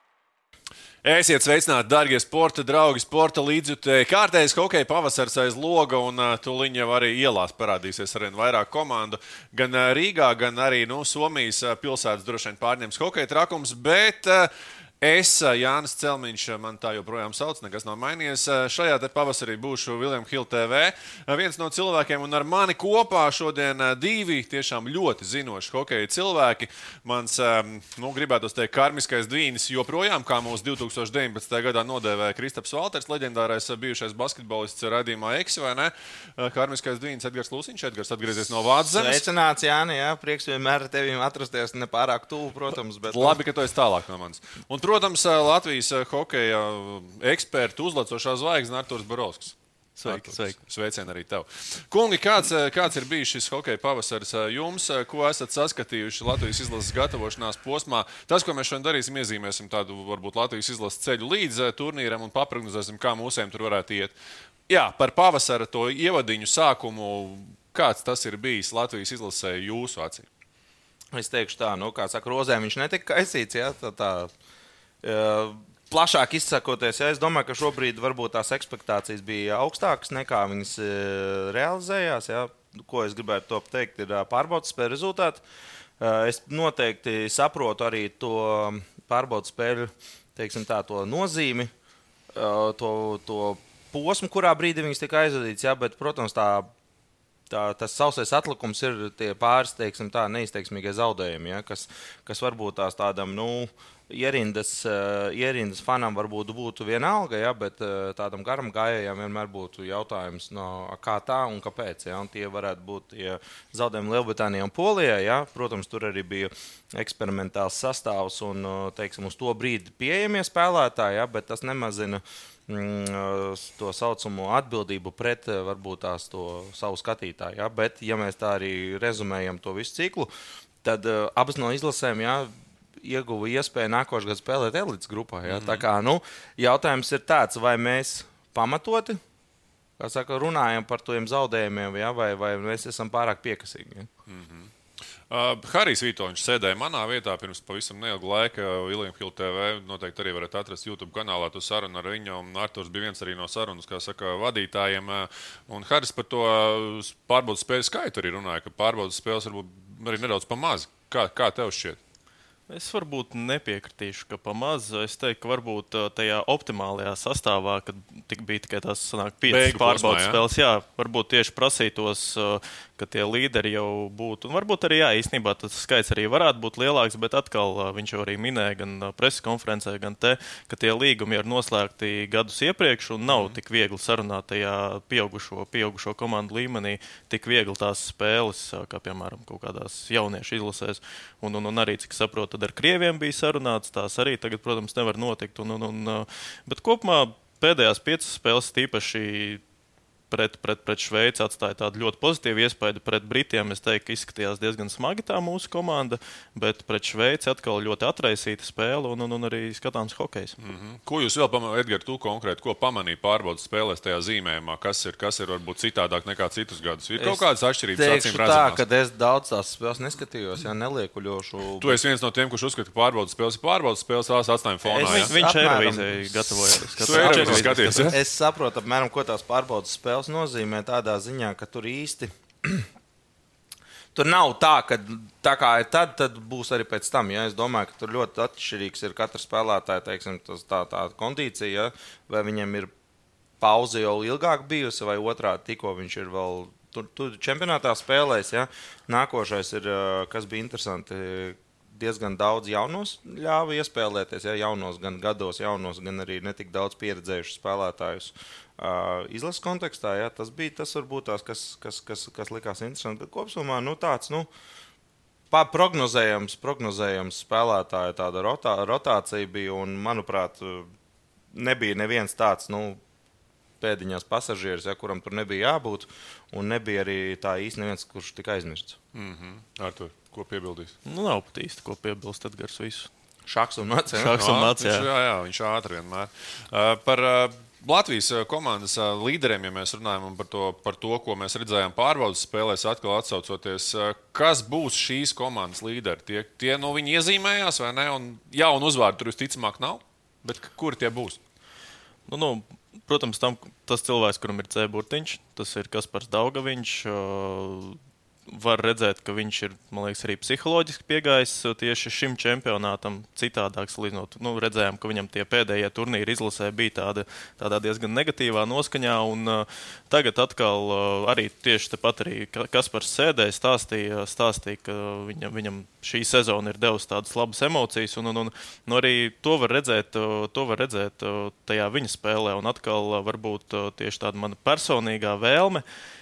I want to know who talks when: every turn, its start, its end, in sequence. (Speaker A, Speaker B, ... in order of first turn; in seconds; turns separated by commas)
Speaker A: 1.0-14.5, Speaker A: 15.0-39.2, Speaker B: 38.8-43.4, Speaker A: 43.1-64.1, Speaker C: 50.0-50.5, Speaker A: 64.7-70.2, Speaker B: 71.1-74.3, Speaker B: 75.0-85.4, Speaker B: 86.0-91.7, Speaker B: 92.3-96.7, Speaker B: 97.5-130.3, Speaker B: 130.8-139.2, Speaker A: 135.5-135.8, Speaker B: 140.0-144.1, Speaker A: 144.3-144.7, Speaker A: 145.3-162.0, Speaker C: 162.7-199.6, Speaker A: 169.5-170.4, Speaker A: 183.3-183.6, Speaker C: 200.3-210.5, Speaker A: 210.6-218.8, Speaker B: 217.2-222.0, Speaker A: 221.8-225.3, Speaker B: 224.8-232.9, Speaker C: 225.0-228.2, Speaker A: 227.0-228.2, Speaker B: 234.1-242.9, Speaker B: 243.6-264.5, Speaker B: 265.5-270.9, Speaker B: 271.5-273.0, Speaker B: 273.8-279.0, Speaker A: 279.1-280.9, Speaker C: 281.0-283.1, Speaker B: 283.4-284.3, Speaker C: 284.1-285.1, Speaker A: 284.4-301.4, Speaker C: 302.3-335.8